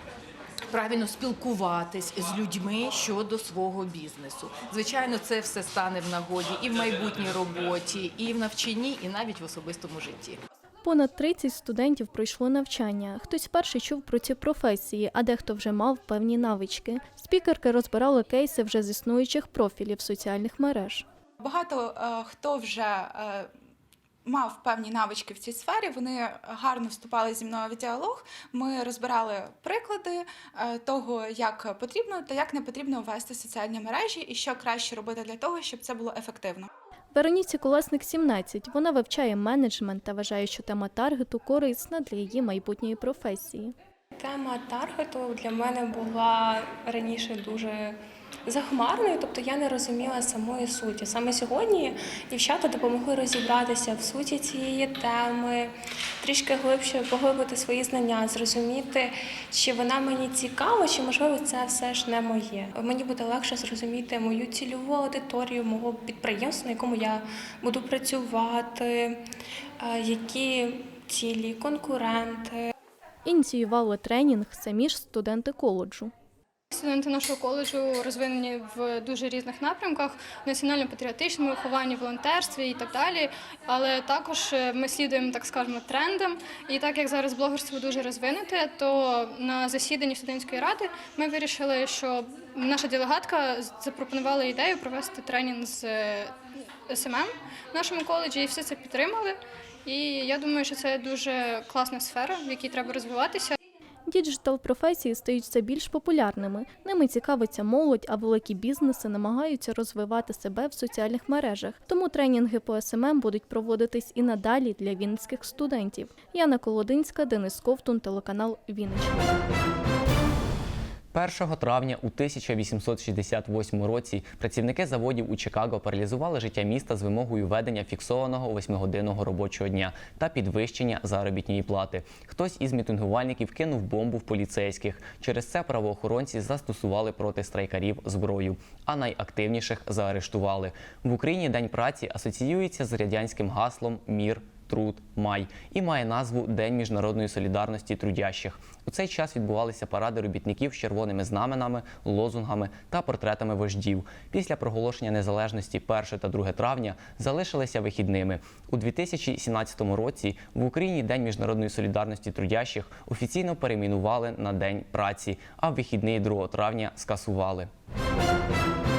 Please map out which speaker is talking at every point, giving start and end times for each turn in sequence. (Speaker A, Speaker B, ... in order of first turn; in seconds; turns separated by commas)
Speaker A: 0.7-10.4, Speaker B: 10.8-21.0, Speaker C: 21.4-23.5, Speaker C: 24.2-36.7, Speaker B: 37.1-43.7, Speaker D: 44.2-69.3, Speaker D: 69.8-72.7, Speaker B: 73.2-76.1, Speaker E: 76.7-96.3, Speaker E: 96.9-103.5, Speaker B: 104.1-119.2, Speaker F: 121.1-167.7